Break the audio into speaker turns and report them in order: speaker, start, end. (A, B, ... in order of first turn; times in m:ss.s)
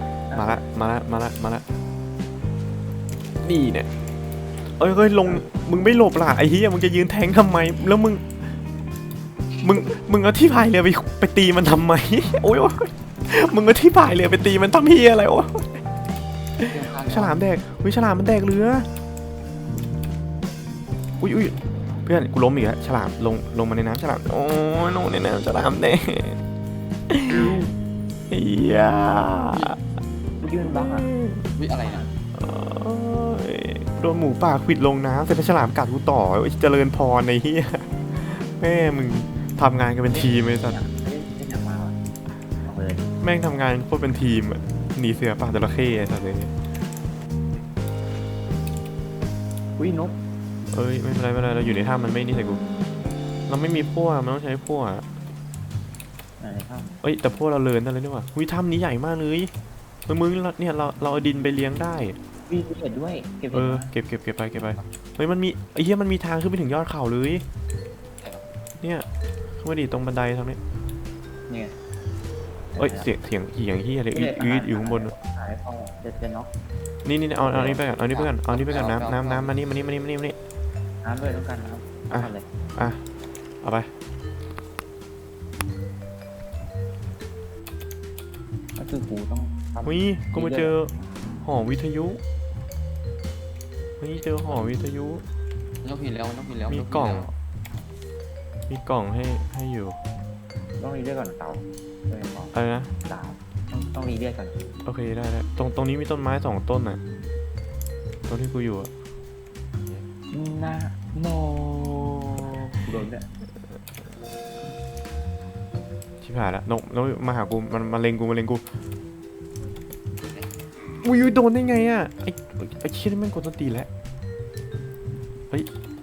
0:00.3-0:00.6 A
0:00.3-0:01.6 B
0:03.4-0:03.9 B
0:04.8-0:08.4 B
0:09.6-0:15.8 B
0:16.6-0:17.4 C
0:16.6-0:18.9 B
0:21.2-0:26.4 B
0:27.1-0:27.6 B
0:27.3-0:27.7 A
0:28.3-0:29.8 B
0:29.4-0:29.8 C
0:30.4-0:31.1 A
0:30.6-0:31.4 B
0:31.5-0:32.1 C
0:31.8-0:32.1 A
0:32.3-0:40.8 B
0:40.1-0:42.0 A
0:42.6-0:43.1 A
0:43.2-0:46.5 B
0:49.8-0:50.2 A
0:50.7-0:52.6 B
0:53.5-0:55.0 B
0:56.4-0:57.0 A
0:57.0-0:59.5 B
1:00.1-1:02.2 B
1:02.5-1:03.9 A
1:03.5-1:07.4 B
1:08.2-1:08.5 C
1:08.8-1:09.0 B
1:09.6-1:10.6 B
1:11.5-1:11.7 A
1:12.7-1:13.1 A
1:12.8-1:15.1 B
1:14.1-1:16.5 A
1:17.0-1:20.4 B
1:17.4-1:17.8 A
1:18.0-1:19.5 C
1:21.0-1:22.4 A
1:22.1-1:23.0 B
1:23.6-1:23.9 B
1:28.8-1:31.0 A
1:29.8-1:30.9 B
1:31.4-1:32.2 B
1:34.0-1:35.2 B
1:35.8-1:37.3 C
1:36.7-1:37.3 B
1:38.7-1:40.0 B
1:40.8-1:42.5 A
1:42.5-1:42.9 B
1:43.0-1:44.7 A
1:44.8-1:47.0 B
1:48.3-1:48.9 B
1:50.3-1:53.2 A
1:56.2-1:58.6 B
2:01.0-2:03.9 B